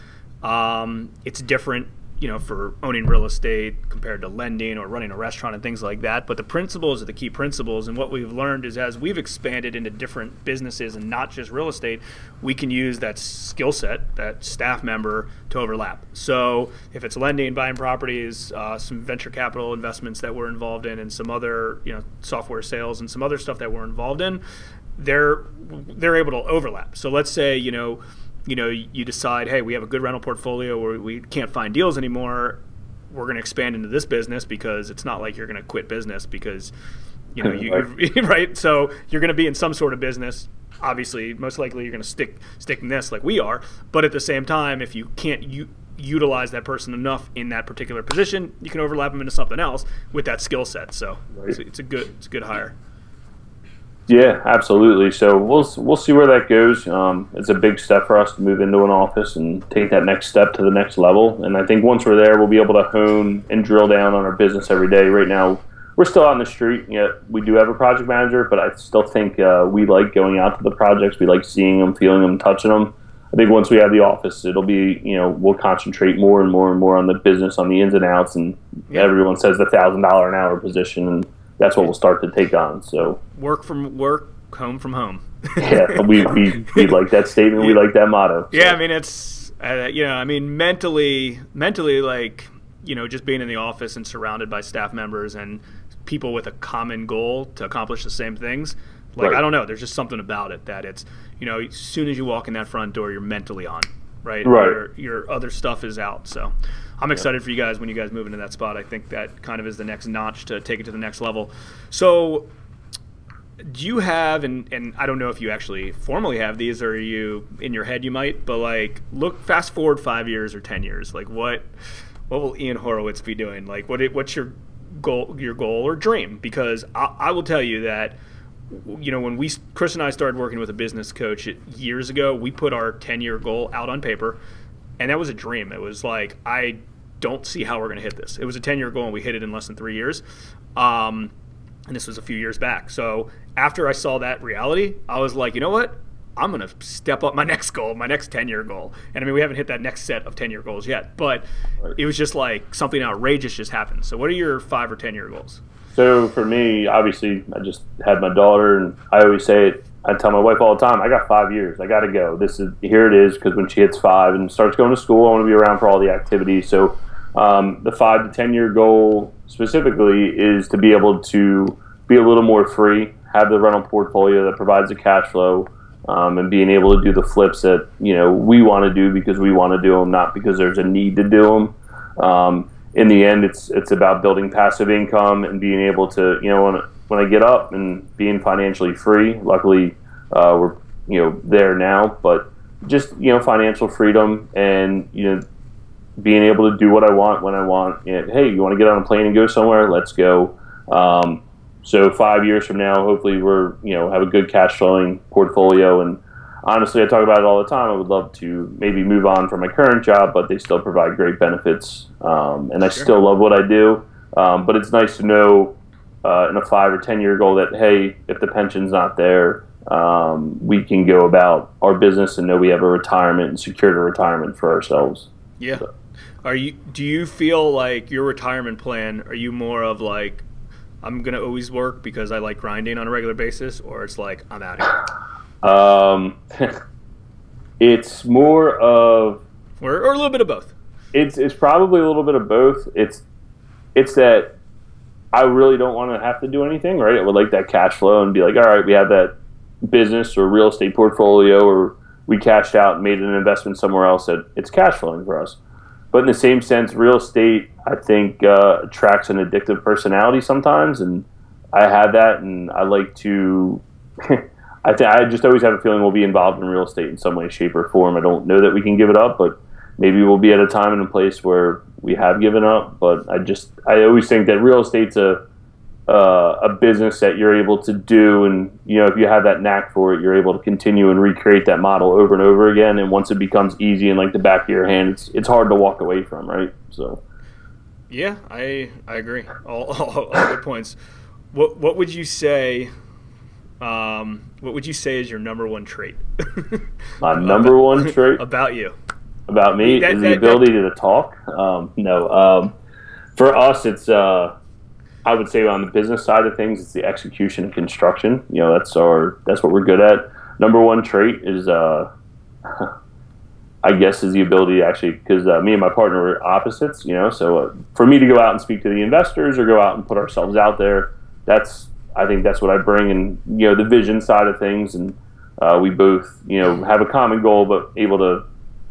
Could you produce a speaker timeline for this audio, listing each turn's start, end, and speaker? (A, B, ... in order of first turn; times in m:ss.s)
0:00.4-0:24.4 A
0:25.0-0:32.6 A
0:33.1-0:36.7 A
0:37.4-0:52.7 A
0:37.4-0:37.8 B
0:54.1-1:23.2 B
1:23.4-1:26.9 A
1:25.6-1:28.8 B
1:28.5-1:52.5 A
1:44.4-1:44.8 B
1:53.6-2:01.7 A
2:02.3-2:08.2 A
2:08.7-2:14.4 A
2:15.0-2:20.2 A
2:20.8-2:21.3 A
2:21.9-2:31.4 A
2:32.0-2:35.6 A
2:35.9-3:15.4 B
3:16.2-3:45.3 B
3:45.6-3:45.9 A
3:46.4-3:50.4 A
3:51.0-3:55.0 A
3:55.6-3:56.8 B
3:57.8-3:59.4 B
3:59.8-4:00.7 A
4:01.1-4:03.2 B
4:04.0-4:04.6 B
4:05.3-4:15.6 B
4:16.1-4:35.4 B
4:36.1-4:47.2 B
4:48.1-4:51.0 A
4:51.5-4:52.9 A
4:53.8-4:59.0 A
4:57.2-4:58.4 B
4:59.5-5:02.7 B
4:59.8-5:00.7 A
5:03.4-5:04.5 B
5:05.2-5:12.1 B
5:12.7-5:12.9 B
5:13.8-5:28.4 B